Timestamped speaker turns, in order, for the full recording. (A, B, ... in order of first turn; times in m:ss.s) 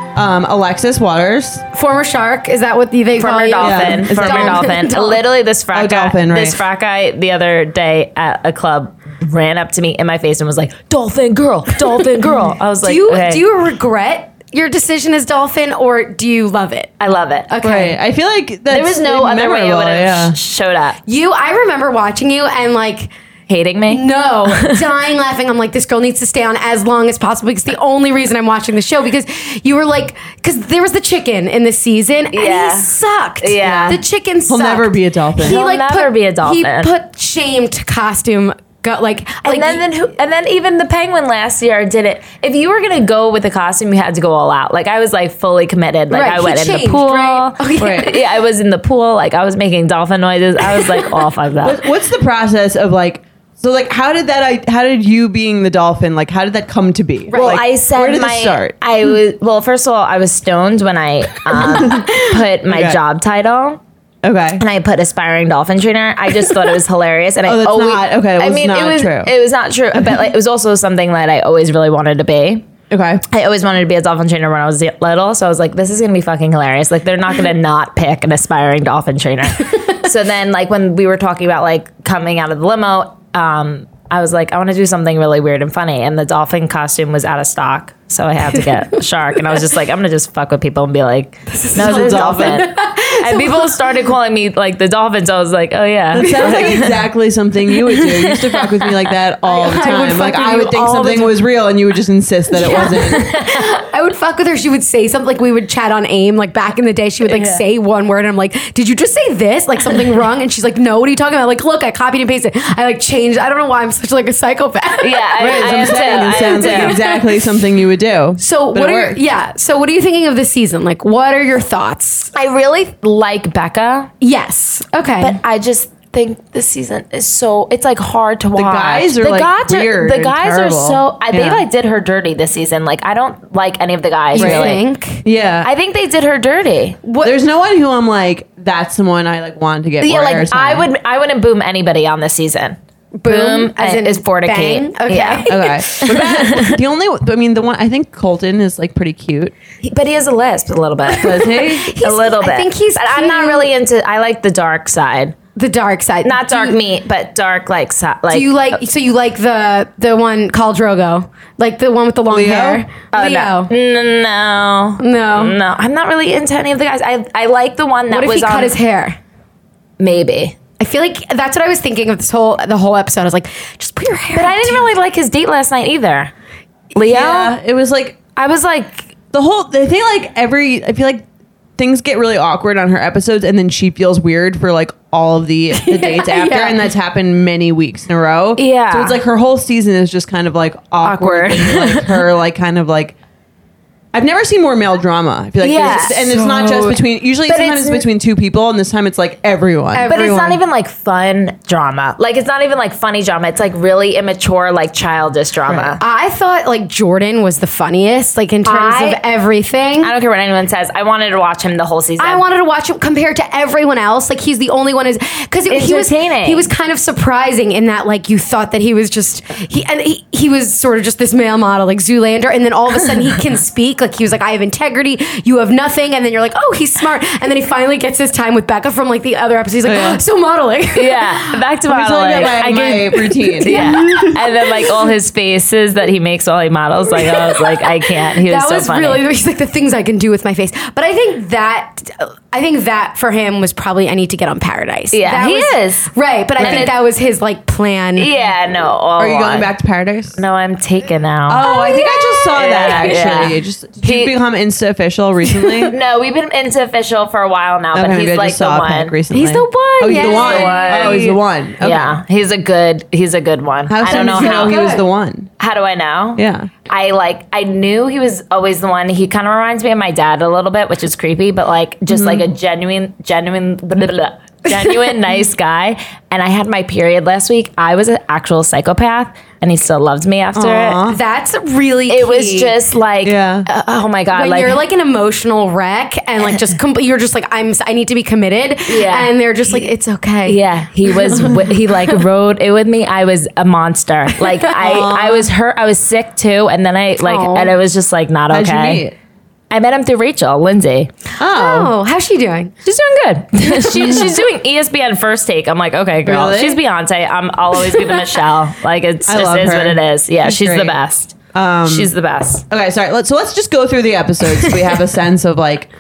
0:00.2-0:01.7 A
0:01.7-0:05.2 B
0:03.2-0:13.4 C
0:03.6-0:04.7 A
0:05.7-0:06.6 A
0:11.9-0:16.9 B
0:17.0-0:17.6 C
0:17.5-0:18.0 B
0:17.6-0:20.4 A
0:18.7-0:21.0 C
0:21.1-0:23.1 B
0:23.5-0:24.8 C
0:23.9-0:39.8 B
0:32.3-0:34.0 C
0:33.6-0:35.6 A
0:35.4-0:36.9 C
0:39.4-0:51.8 C
0:46.1-0:48.3 B
0:47.8-0:48.1 A
0:50.7-0:51.1 B
0:51.6-0:58.8 A
0:57.3-0:57.7 B
0:57.3-1:03.8 C
1:01.7-1:02.1 A
1:02.7-1:03.0 A
1:04.2-1:04.6 A
1:04.6-1:12.7 C
1:07.4-1:09.3 A
1:09.9-1:10.2 A
1:12.9-1:13.2 A
1:13.3-1:37.0 C
1:31.5-1:34.0 B
1:31.8-1:32.6 A
1:36.1-1:43.3 A
1:36.2-1:37.0 B
1:37.9-1:38.3 B
1:39.4-1:41.4 B
1:42.5-1:57.4 B
1:42.7-1:43.8 C
1:47.3-1:47.6 C
1:55.0-1:57.0 C
1:55.4-1:59.2 A
1:58.4-2:02.3 B
2:02.3-2:04.1 C
2:04.2-2:05.4 B
2:05.2-2:14.8 C
2:08.6-2:11.6 A
2:14.3-2:15.2 B
2:14.4-2:15.7 A
2:15.6-2:17.0 C
2:17.0-2:17.4 B
2:17.2-2:20.9 A
2:20.0-2:26.8 C
2:23.2-2:26.5 B
2:25.5-2:29.6 A
2:29.8-2:35.4 C
2:31.1-2:31.9 A
2:31.2-2:33.7 B
2:35.6-2:36.8 B
2:36.2-2:38.8 C
2:38.3-2:43.7 B
2:42.3-2:42.8 A
2:43.1-2:48.8 C
2:45.0-2:45.6 B
2:48.1-2:49.2 B
2:50.0-2:50.6 C
2:50.8-2:54.9 B
2:54.3-2:56.3 C
2:57.0-2:57.6 C
2:57.0-2:58.2 A
2:58.4-2:59.1 C
2:59.3-3:01.3 A
3:01.8-3:13.2 A
3:05.7-3:06.8 B
3:08.6-3:09.2 C
3:11.0-3:12.1 C
3:14.1-3:20.1 A
3:15.6-3:16.9 C
3:16.6-3:16.9 B
3:17.5-3:18.0 C
3:19.9-3:20.6 B
3:20.1-3:26.0 C
3:25.7-3:25.9 A
3:26.0-3:30.1 B
3:28.6-3:29.2 C
3:30.0-3:32.4 C
3:32.2-3:51.6 B
3:35.7-3:36.7 C
3:49.8-3:50.2 A
3:51.0-3:59.2 C
3:51.9-3:54.5 A
3:53.4-3:55.0 B
3:57.1-4:08.3 B
4:05.1-4:06.9 C
4:06.6-4:06.9 A
4:08.2-4:09.7 C
4:09.2-4:10.4 A
4:10.4-4:14.4 C
4:11.5-4:15.9 A
4:11.6-4:13.3 B
4:15.9-4:24.9 C
4:17.9-4:22.2 A
4:19.3-4:21.3 B
4:23.9-4:25.5 A
4:24.1-4:25.1 B
4:25.6-4:41.0 C
4:26.4-4:26.7 A
4:32.1-4:32.5 A
4:34.8-4:35.2 B
4:40.5-4:41.2 A
4:41.1-4:42.8 B
4:42.1-4:44.8 C
4:43.2-4:43.7 A
4:44.3-4:50.6 B
4:48.9-4:49.3 C
4:50.5-4:59.0 C
4:54.8-4:55.5 A
4:57.2-4:57.7 B
4:58.5-4:59.2 A
4:59.7-5:01.1 C
5:01.4-5:01.9 A
5:01.5-5:02.7 B
5:02.8-5:12.6 C
5:06.2-5:06.8 A
5:08.0-5:08.2 B
5:09.3-5:11.0 A
5:11.5-5:12.1 A
5:12.7-5:15.9 A